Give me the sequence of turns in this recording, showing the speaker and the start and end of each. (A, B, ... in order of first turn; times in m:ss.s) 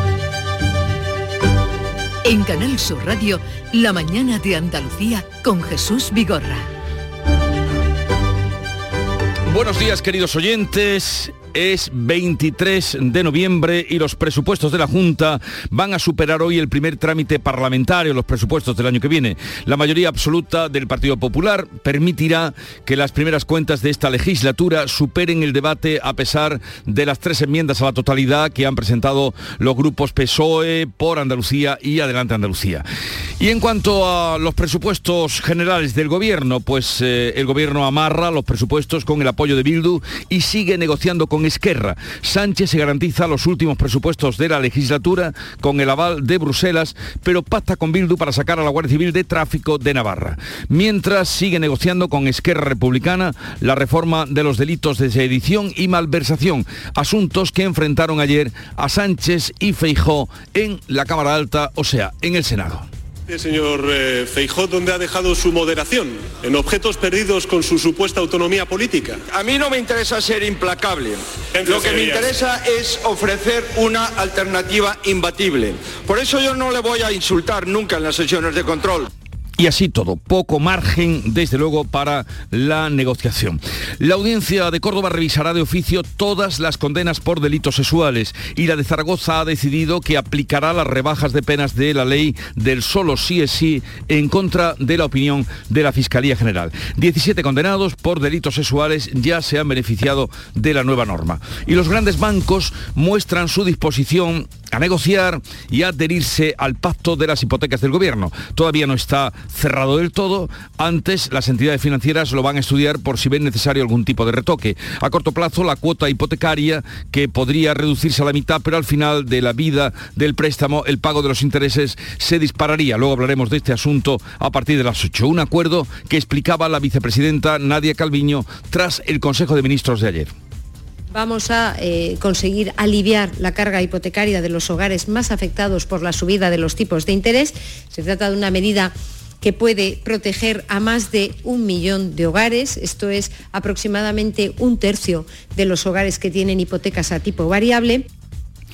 0:02.2-0:06.6 A
0:09.5-0:32.8 B
0:33.4-1:02.9 B
1:03.3-1:09.2 C
1:09.3-1:19.1 D
1:19.6-2:10.3 B
2:11.1-2:28.1 E